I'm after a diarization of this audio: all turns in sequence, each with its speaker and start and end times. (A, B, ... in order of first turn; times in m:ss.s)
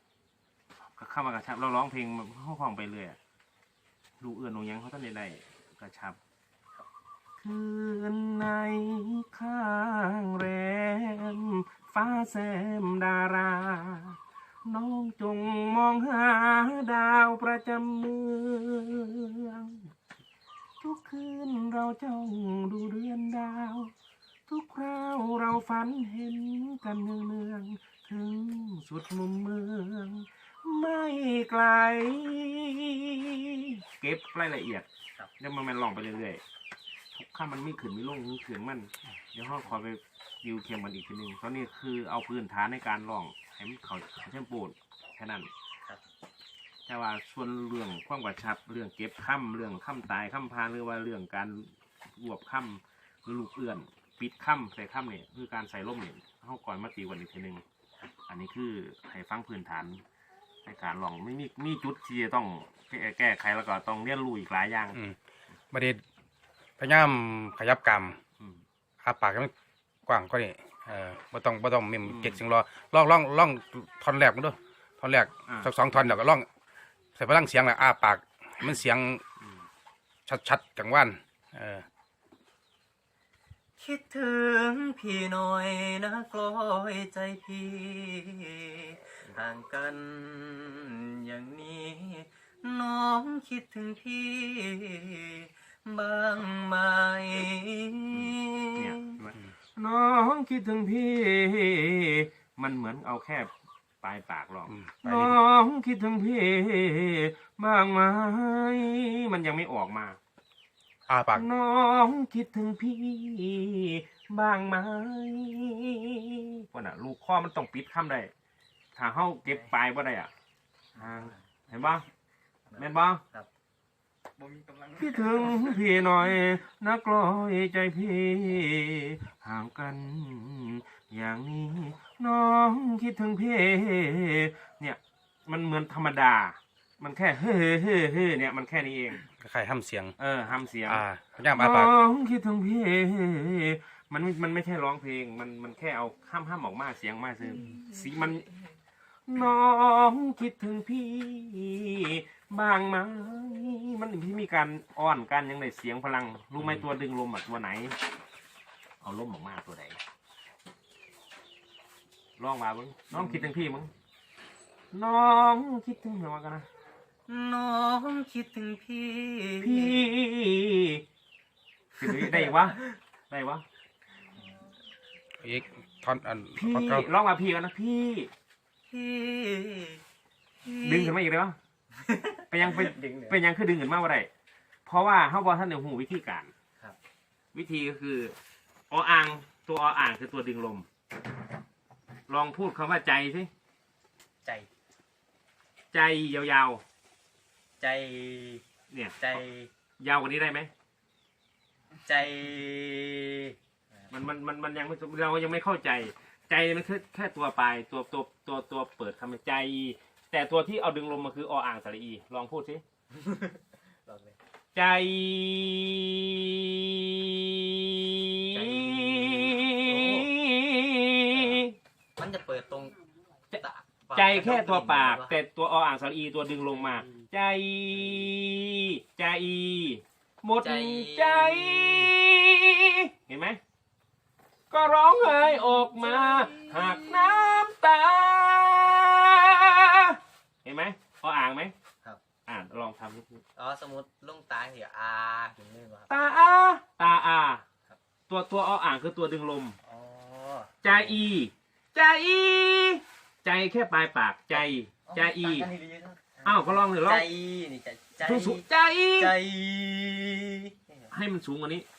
0:01.0-0:03.2 A
0:04.2-0:06.2 A
0:07.4-0:19.9 A
0:20.8-0:23.9 A
0:24.5-0:34.9 A
0:35.4-0:36.4 A
0:37.2-0:45.5 A
0:46.9-0:57.6 A
0:58.3-1:00.0 A
1:00.7-1:05.0 A
1:05.7-1:06.0 B
1:06.8-1:08.2 B
1:09.0-1:09.5 B
1:10.1-1:16.5 B
1:12.1-1:12.4 A
1:15.5-1:15.7 A
1:17.2-1:19.2 B
1:20.3-1:21.8 B
1:23.8-1:39.2 C
1:38.1-1:43.5 A
1:44.0-1:50.2 A
1:44.7-1:45.4 B
1:51.1-1:51.5 B
1:51.4-1:58.3 A
1:59.0-2:00.3 A
1:59.5-1:59.7 C
2:01.0-2:01.4 C
2:01.0-2:02.0 A
2:02.7-2:03.5 C
2:02.8-2:03.2 A
2:04.4-2:05.8 C
2:05.0-2:19.2 A
2:19.3-2:20.2 B
2:20.2-2:21.0 A
2:20.9-2:22.0 B
2:21.6-2:28.5 A
2:27.4-2:28.1 C
2:29.3-2:38.0 A
2:39.0-2:40.0 A
2:42.4-2:43.9 A
2:43.1-2:43.6 C
2:44.9-2:46.7 A
2:47.3-2:50.1 C
2:49.6-2:51.0 A
2:52.0-2:53.6 A
2:52.2-2:52.7 C
2:55.4-2:57.1 B
2:56.6-2:58.3 A
2:58.9-3:00.0 C
3:00.6-3:01.2 C
3:00.8-3:01.6 A
3:02.0-3:03.4 C
3:02.5-3:04.3 A
3:04.9-3:06.5 A
3:07.5-3:08.3 A
3:08.9-3:10.9 A
3:12.3-3:13.5 A
3:15.9-3:16.8 A
3:17.8-3:18.6 C
3:18.9-3:19.4 A
3:19.2-3:19.7 C
3:20.0-3:20.7 A
3:22.1-3:24.1 C
3:24.1-3:32.8 A
3:33.1-3:34.4 C
3:34.8-3:41.8 A
3:38.5-3:40.3 C
3:41.3-3:43.0 C
3:43.5-3:45.4 C
3:44.1-3:53.6 A
3:50.6-3:52.1 C
3:54.7-4:01.7 A
3:55.3-3:57.3 C
4:02.5-4:03.4 A
4:03.6-4:06.1 C
4:06.1-4:07.6 A
4:08.3-4:09.8 A
4:09.8-4:11.2 C
4:10.8-4:15.7 A
4:14.6-4:18.7 C
4:16.4-4:17.3 A
4:18.2-4:19.4 A
4:19.2-4:21.1 C
4:21.1-4:21.9 A